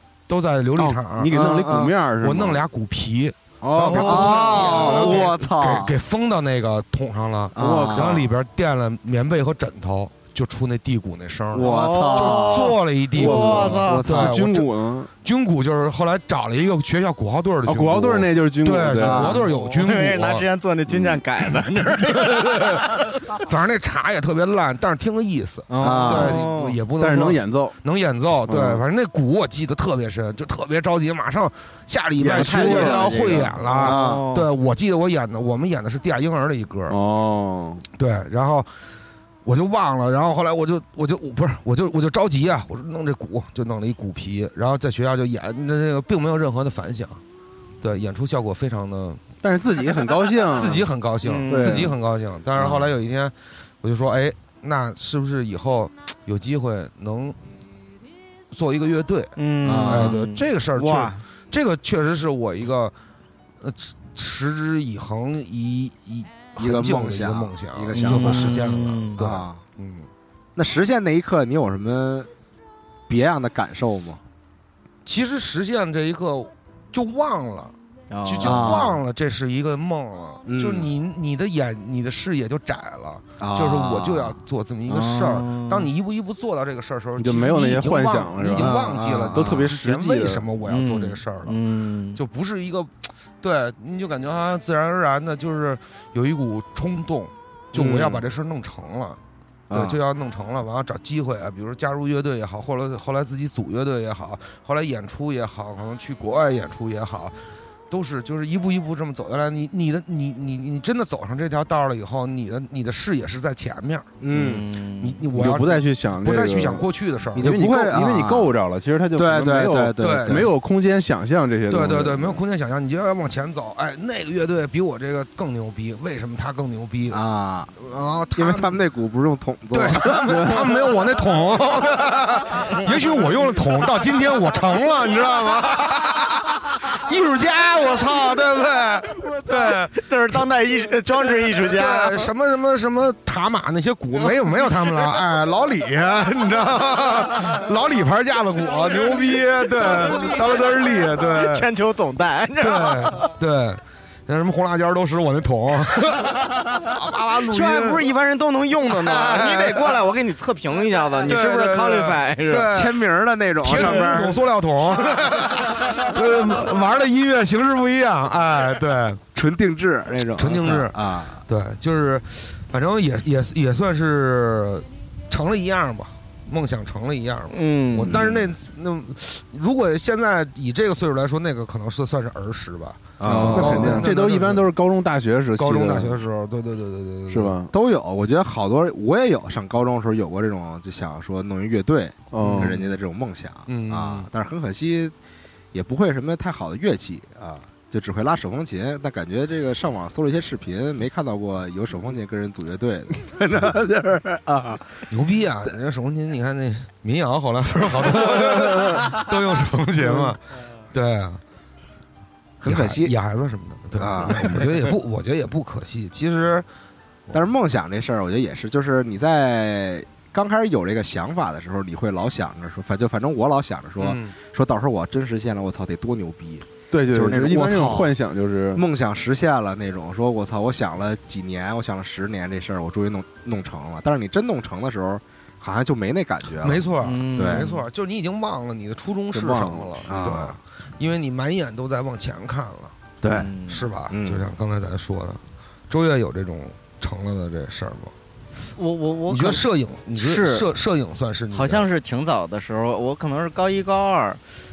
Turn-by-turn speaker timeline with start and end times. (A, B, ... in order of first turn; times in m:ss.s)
0:00.3-0:01.3 A
0:00.8-0:02.6 B
0:01.3-0:01.9 C
0:02.2-0:20.4 A
0:03.6-0:04.9 B
0:03.9-0:05.3 D
0:03.9-0:05.9 C
0:07.5-0:08.3 C
0:07.6-0:08.3 B
0:11.5-0:14.4 C
0:11.6-0:14.0 D
0:13.2-0:15.1 B
0:17.6-0:19.4 B
0:19.0-0:19.5 C
0:19.4-0:23.0 D
0:20.9-0:21.2 B
0:22.2-0:37.0 A
0:25.7-0:26.8 D
0:25.8-0:26.4 C
0:27.0-0:27.8 B
0:28.5-0:28.8 B
0:32.2-0:33.5 B
0:32.3-0:34.5 D
0:33.8-0:34.2 C
0:36.9-0:37.8 B
0:38.0-0:38.7 A
0:39.4-0:47.2 A
0:47.8-0:49.2 A
0:49.4-0:50.9 B
0:50.5-0:57.4 A
0:51.2-0:51.8 D
0:51.5-0:51.9 B
0:52.6-0:52.9 C
0:58.5-0:59.3 A
0:59.4-1:01.2 D
0:59.6-1:00.2 C
0:59.8-1:02.9 A
1:03.6-1:10.1 A
1:06.6-1:08.6 C
1:07.9-1:09.2 D
1:09.2-1:09.6 C
1:10.6-1:12.3 C
1:13.1-1:14.2 C
1:15.0-1:31.6 A
1:18.1-1:18.8 D
1:18.4-1:19.0 C
1:20.4-1:20.9 C
1:23.4-1:24.4 C
1:24.9-1:25.9 D
1:27.2-1:30.4 B
1:28.6-1:29.7 C
1:30.7-1:32.2 D
1:32.1-1:39.2 A
1:37.7-1:38.2 C
1:39.7-1:40.0 C
1:39.7-1:47.4 A
1:47.9-1:54.1 A
1:54.2-1:54.6 C
1:54.3-1:55.2 D
1:55.0-1:57.6 A
1:55.3-2:02.4 B
1:57.4-1:58.5 C
1:59.2-2:00.5 C
2:00.0-2:00.5 A
2:01.7-2:07.2 A
2:07.1-2:07.7 C
2:07.8-2:08.8 A
2:08.4-2:10.6 C
2:09.7-2:20.4 A
2:19.9-2:22.3 D
2:21.5-2:31.7 A
2:29.8-2:33.3 D
2:32.6-2:38.0 A
2:37.5-2:42.8 D
2:38.9-2:40.0 A
2:41.2-2:43.0 A
2:42.7-2:44.4 C
2:43.6-2:49.2 A
2:43.7-2:44.0 D
2:45.1-2:45.8 D
2:49.3-2:51.4 C
2:50.4-3:04.7 A
2:57.5-2:58.2 D
2:58.1-2:58.4 C
3:03.2-3:04.1 C
3:03.2-3:06.2 B
3:05.6-3:07.6 A
3:07.3-3:07.7 B
3:07.7-3:15.1 C
3:12.3-3:12.9 B
3:12.4-3:12.8 A
3:13.7-3:14.3 A
3:15.7-3:25.0 C
3:25.1-3:30.4 A
3:28.2-3:29.0 C
3:30.9-3:31.4 A
3:32.6-3:33.1 C
3:32.6-3:36.6 A
3:34.0-3:34.7 C
3:37.3-3:48.1 C
3:44.0-3:44.4 A
3:46.9-3:48.8 B
3:48.7-3:57.7 C
3:56.6-4:03.0 A
3:57.0-3:57.8 D
3:59.3-4:00.0 B
4:00.1-4:00.6 C
4:03.2-4:03.5 C
4:03.3-4:03.9 D
4:03.7-4:08.1 A
4:04.1-4:04.4 C
4:08.7-4:10.7 D
4:09.3-4:11.9 A
4:11.5-4:14.4 D